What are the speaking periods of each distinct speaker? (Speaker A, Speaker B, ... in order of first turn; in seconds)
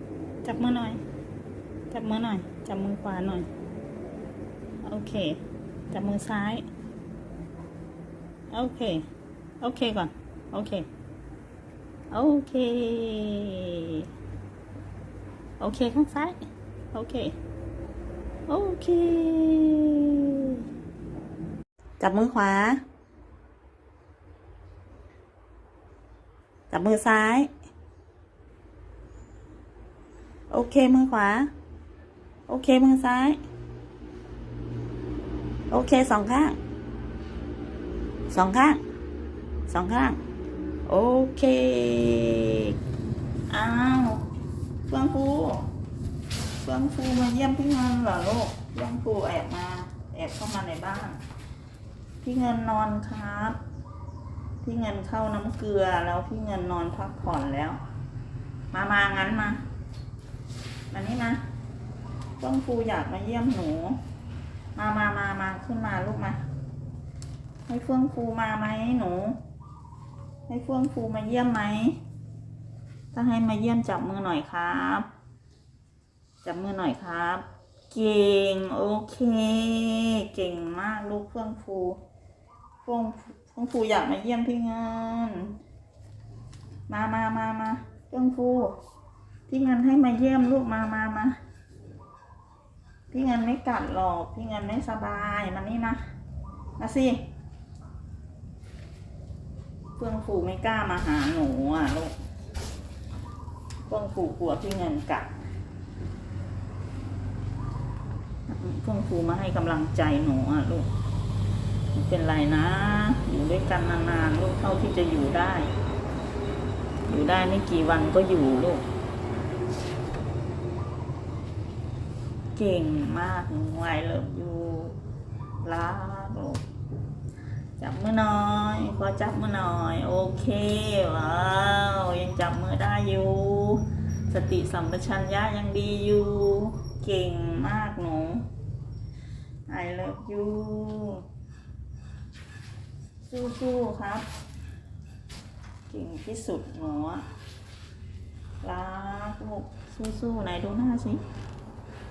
Speaker A: 0.4-1.0, 1.9-3.5, 4.8-5.4, 5.9-6.7, 8.5-9.1, 9.6-10.9, 12.1-14.1, 15.6-16.4, 16.9-17.3, 18.5-20.6, 22.0-22.8, 26.7-27.5, 30.5-31.5, 32.5-33.4, 35.7-36.6, 38.3-38.8, 39.7-40.2, 40.9-42.7, 43.5-44.2, 44.9-45.7, 46.6-51.2, 52.2-53.6, 54.6-57.8, 58.7-59.6, 60.9-61.4, 62.4-64.0, 64.7-66.4, 67.7-69.4, 70.5-72.0, 73.1-75.1, 76.4-82.0, 82.8-85.5, 86.9-88.7, 89.5-91.4, 93.1-96.0, 96.8-97.3, 100.0-102.1, 103.9-105.3, 108.5-110.9, 111.9-115.7, 117.1-118.8, 122.5-125.0, 125.6-126.6, 127.8-138.4, 139.7-141.2, 143.2-144.3, 145.9-147.2, 148.6-151.2